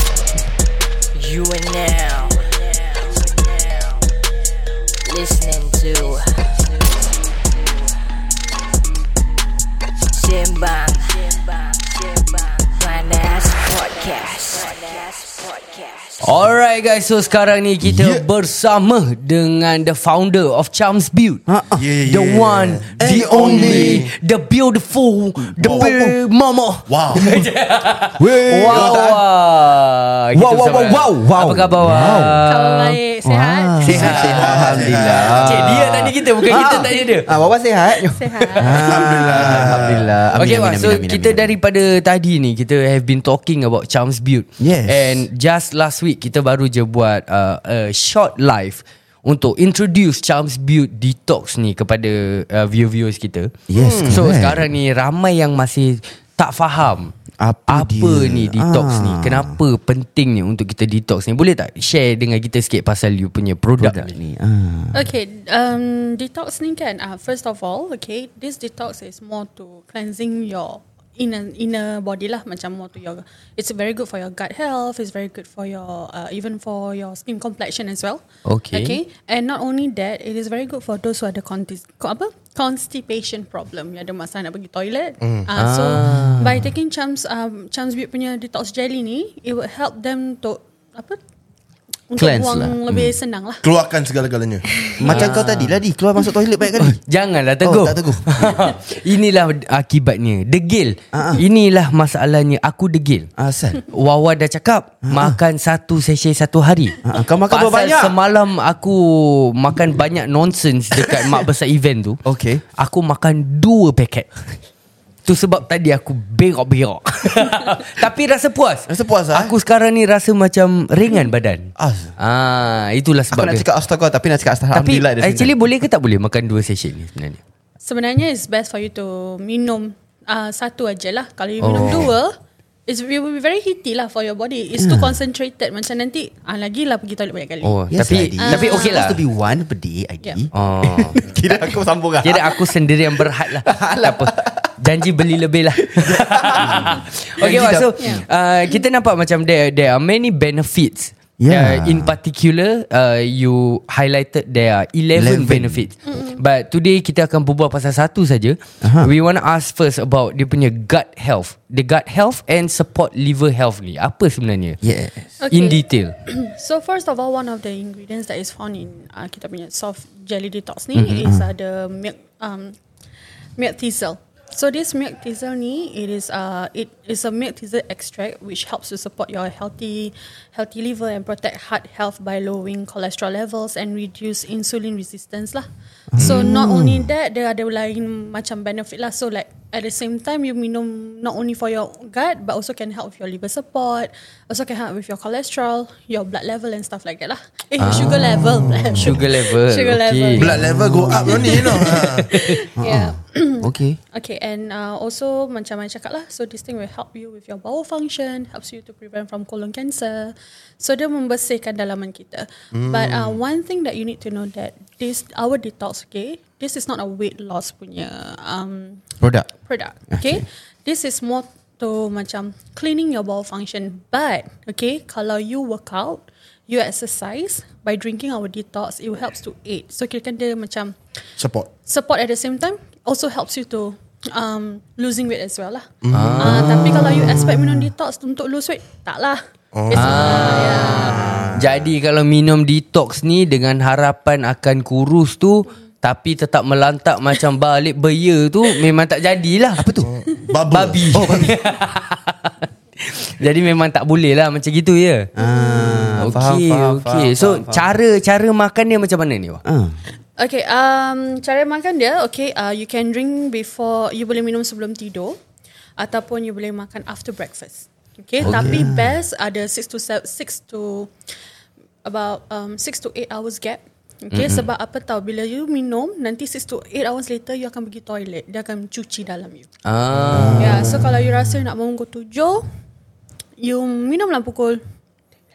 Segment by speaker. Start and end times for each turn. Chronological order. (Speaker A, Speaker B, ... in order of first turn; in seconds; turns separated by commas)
Speaker A: 1.1-4.0, Speaker A: 5.0-7.9, Speaker A: 10.1-16.4, Speaker B: 16.2-21.4, Speaker C: 17.8-18.2, Speaker C: 21.5-21.8, Speaker D: 21.7-24.1, Speaker B: 22.1-33.0, Speaker C: 23.0-24.1, Speaker C: 25.6-26.1, Speaker D: 25.6-25.9, Speaker D: 26.9-27.3, Speaker C: 28.2-29.2, Speaker D: 28.7-28.9, Speaker C: 30.3-32.4, Speaker E: 32.4-34.4, Speaker C: 33.2-41.5, Speaker B: 33.8-37.3, Speaker D: 34.0-35.6, Speaker E: 38.1-39.0, Speaker B: 38.4-38.7, Speaker D: 38.8-40.0, Speaker B: 39.3-39.8, Speaker B: 40.3-57.1, Speaker C: 44.6-45.2, Speaker C: 53.7-54.7, Speaker D: 53.7-54.2, Speaker C: 57.4-59.6, Speaker B: 57.7-64.1, Speaker C: 63.8-65.1, Speaker E: 64.9-91.2, Speaker B: 78.4-79.0, Speaker D: 85.2-85.5, Speaker B: 85.5-86.7, Speaker E: 92.1-93.7, Speaker C: 92.2-93.1, Speaker D: 93.6-94.7, Speaker E: 94.7-95.4, Speaker C: 95.0-97.0, Speaker B: 95.0-95.8, Speaker B: 96.8-103.3, Speaker C: 97.6-98.6, Speaker C: 101.1-101.4, Speaker C: 103.4-103.8, Speaker B: 103.9-112.2, Speaker C: 105.0-105.4, Speaker C: 107.0-108.2, Speaker C: 112.2-112.6, Speaker B: 112.8-114.6, Speaker B: 115.2-123.6, Speaker C: 118.9-119.5, Speaker C: 121.8-122.1, Speaker C: 123.3-125.5, Speaker B: 124.7-127.4, Speaker E: 127.8-132.3, Speaker B: 131.6-132.1, Speaker E: 132.9-137.8, Speaker C: 134.8-135.2, Speaker B: 137.6-139.2, Speaker C: 137.9-142.7, Speaker E: 138.4-139.1, Speaker B: 140.5-141.2, Speaker B: 142.2-164.8, Speaker C: 143.5-144.7, Speaker C: 145.9-148.2, Speaker C: 151.4-152.2, Speaker C: 155.2-155.9, Speaker E: 156.0-156.4, Speaker C: 158.8-159.1, Speaker C: 164.8-165.2, Speaker E: 165.4-172.8, Speaker B: 165.5-166.1, Speaker B: 170.9-171.2, Speaker C: 171.2-171.4, Speaker E: 173.6-230.9, Speaker C: 186.1-187.1, Speaker B: 197.8-200.6, Speaker D: 200.4-202.3, Speaker C: 200.6-201.5, Speaker B: 201.5-202.6, Speaker C: 202.8-204.0, Speaker D: 212.7-213.4, Speaker C: 219.2-219.5, Speaker C: 220.1-220.4, Speaker D: 231.4-231.7, Speaker E: 231.8-235.9, Speaker D: 236.0-237.8, Speaker B: 236.1-237.3, Speaker E: 236.4-241.4, Speaker D: 239.7-240.7, Speaker B: 239.9-249.9, Speaker C: 240.8-241.9, Speaker C: 249.8-250.1, Speaker D: 250.0-251.2, Speaker B: 250.7-252.5, Speaker C: 251.1-251.6, Speaker B: 253.1-255.3, Speaker C: 255.3-257.9, Speaker B: 256.2-259.6, Speaker C: 259.6-260.0, Speaker E: 260.4-265.4, Speaker E: 266.0-271.1, Speaker C: 268.4-269.2, Speaker B: 268.4-268.8, Speaker E: 272.0-279.7, Speaker B: 274.3-274.6, Speaker B: 279.9-280.9, Speaker D: 280.2-281.1, Speaker C: 280.3-280.6, Speaker E: 280.4-282.6, Speaker E: 283.6-284.8